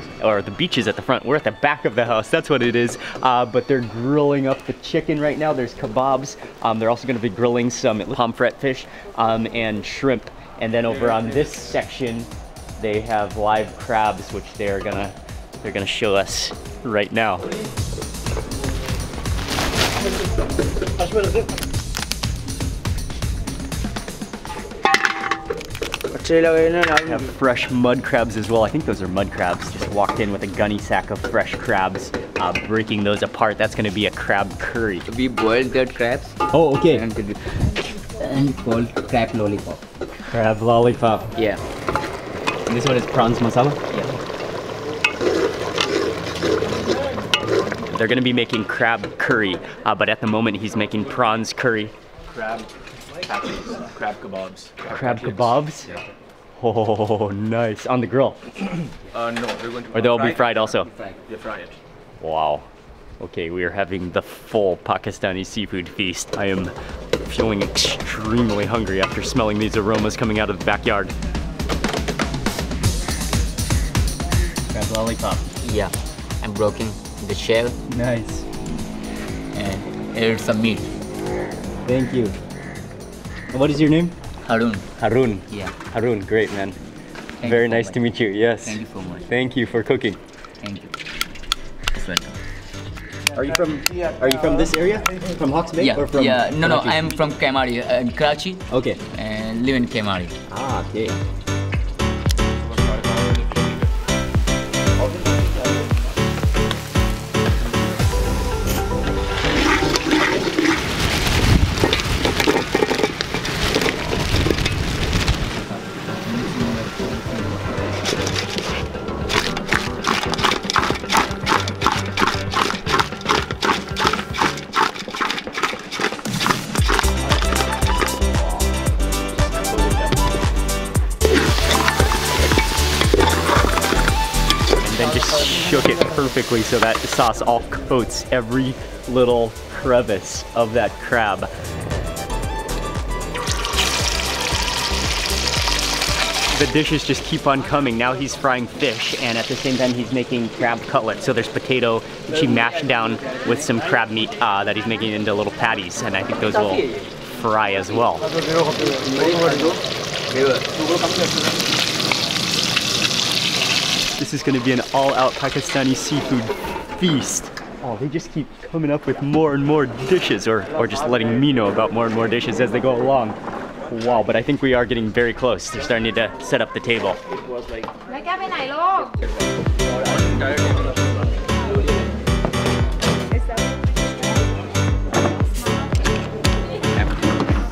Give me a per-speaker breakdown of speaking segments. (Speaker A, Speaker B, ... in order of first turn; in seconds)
Speaker A: 0.2-17.5, 26.8-35.1, 36.5-37.1, 40.3-41.3, 42.7-43.8, 47.9-51.9, 54.9-55.9, 56.6-58.4, 59.9-60.9, 62.2-62.7, 63.2-71.1, 74.7-75.4, 77.9-78.5, 81.8-82.4, 83.5-84.2, 85.0-86.8, 87.4-90.2, 93.3-97.1, 98.7-99.0, 100.5-101.2, 128.3-130.3, 134.8-141.5, 146.5-158.3, 164.2-173.4, 173.9-177.2
Speaker B: 26.2-26.7, 35.1-36.4, 36.9-37.5, 38.0-39.8, 41.4-41.6, 75.6-77.8, 79.5-80.9, 84.4-84.8, 87.4-88.0, 88.6-89.2, 90.6-90.9, 92.0-92.3, 95.8-100.3, 116.2-117.2, 159.0-161.3
Speaker C: 52.3-52.7, 53.2-55.6, 59.1-61.8, 180.0-181.1